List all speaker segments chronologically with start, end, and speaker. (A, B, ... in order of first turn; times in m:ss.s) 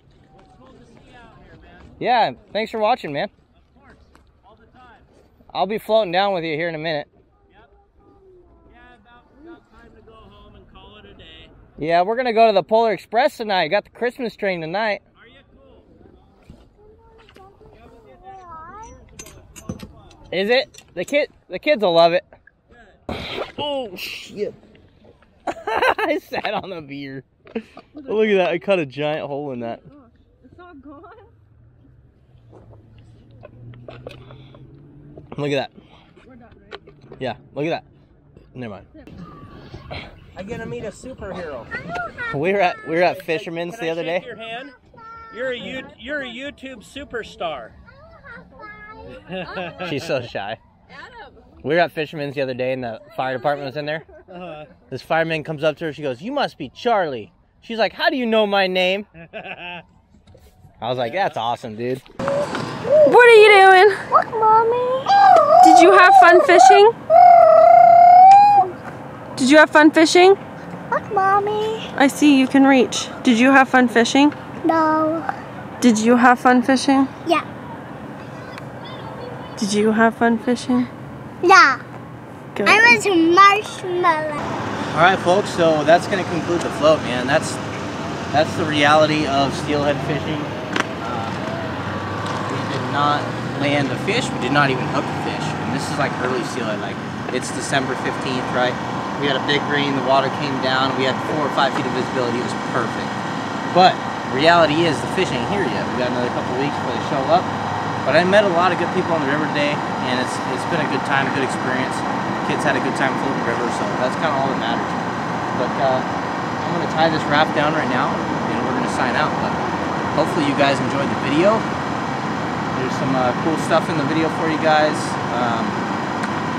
0:00.3-0:01.9 A
0:02.0-0:03.3 B
0:03.5-0:05.1 A
0:05.5-0:07.1 B
0:08.0-0:08.7 C
0:08.7-0:11.5 A
0:11.8-0:15.0 B
0:15.2-0:15.9 A
0:16.9-0:18.9 C
0:17.8-0:19.8 A
0:20.3-0:22.2 B
0:22.7-0:23.0 A
0:23.3-0:24.6 B
0:25.5-0:29.8 B
0:35.3-0:35.7 B
0:37.2-0:37.8 B
0:38.5-0:38.9 B
0:40.3-0:41.7 A
0:42.2-0:44.3 B
0:42.9-0:44.8 A
0:45.3-0:47.8 A
0:48.1-0:49.9 C
0:49.1-0:50.0 A
0:49.7-0:50.6 B
0:51.6-0:54.1 B
0:54.3-0:54.7 A
0:54.9-0:59.1 B
0:59.3-0:59.8 A
1:00.8-1:02.0 B
1:03.0-1:04.0 D
1:04.1-1:05.7 C
1:05.6-1:06.9 D
1:07.4-1:07.9 C
1:09.4-1:10.4 D
1:10.9-1:11.9 C
1:11.9-1:14.3 D
1:14.6-1:15.3 C
1:15.8-1:17.1 D
1:19.6-1:20.9 D
1:21.4-1:21.8 C
1:22.5-1:23.0 D
1:22.6-1:24.4 C
1:24.9-1:27.6 B
1:28.3-1:31.4 B
1:32.5-1:43.1 B
1:43.6-1:47.5 B
1:48.0-1:55.0 B
1:55.5-1:56.1 B
1:56.6-1:59.6 B
2:00.1-2:01.6 B
2:02.7-2:05.8 B